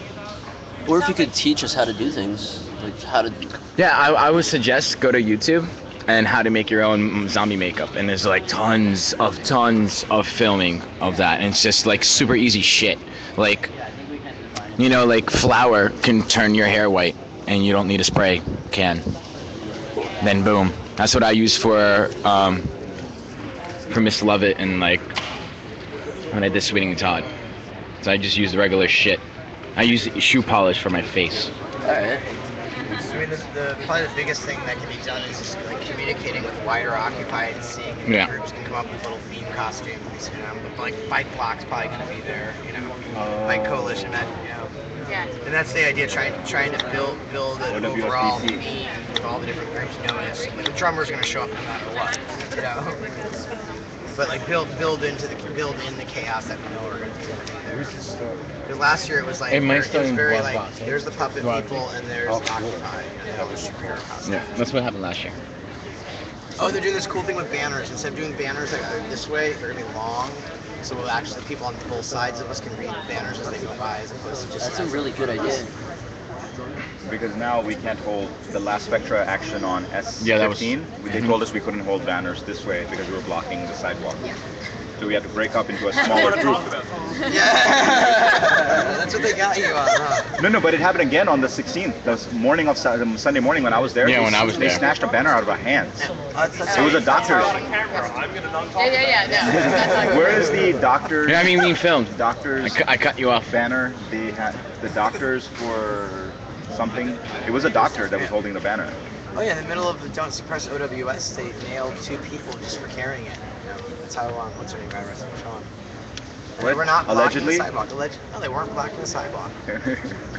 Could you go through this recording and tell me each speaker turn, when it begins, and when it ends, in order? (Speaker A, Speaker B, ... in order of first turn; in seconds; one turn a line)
Speaker A: 0.9-3.5
Speaker B: 3.8-13.7
Speaker A: 14.0-14.7
Speaker B: 14.8-19.1
Speaker B: 20.2-22.7
Speaker B: 23.9-25.1
Speaker B: 26.3-27.3
Speaker B: 28.0-29.2
Speaker B: 29.8-31.5
Speaker A: 31.9-32.2
Speaker C: 33.0-44.7
Speaker D: 43.1-44.0
Speaker E: 45.1-45.3
Speaker C: 45.4-53.1
Speaker D: 47.7-48.7
Speaker C: 54.1-64.5
Speaker B: 59.5-61.7
Speaker B: 64.2-65.4
Speaker C: 66.6-75.6
Speaker A: 74.6-75.7
Speaker D: 77.0-84.3
Speaker B: 80.2-81.3
Speaker D: 85.0-86.7
Speaker E: 86.0-86.5
Speaker C: 87.2-90.4
Speaker D: 90.4-96.1
Speaker B: 94.0-94.8
Speaker C: 96.0-98.2
Speaker E: 96.7-98.1
Speaker D: 96.7-97.6
Speaker E: 98.7-100.6
Speaker C: 99.2-100.4
Speaker D: 99.4-102.9
Speaker B: 101.2-103.5
Speaker D: 103.5-109.0
Speaker C: 109.3-115.7
Speaker C: 116.6-119.5
Speaker D: 116.6-117.7
Speaker D: 119.7-120.2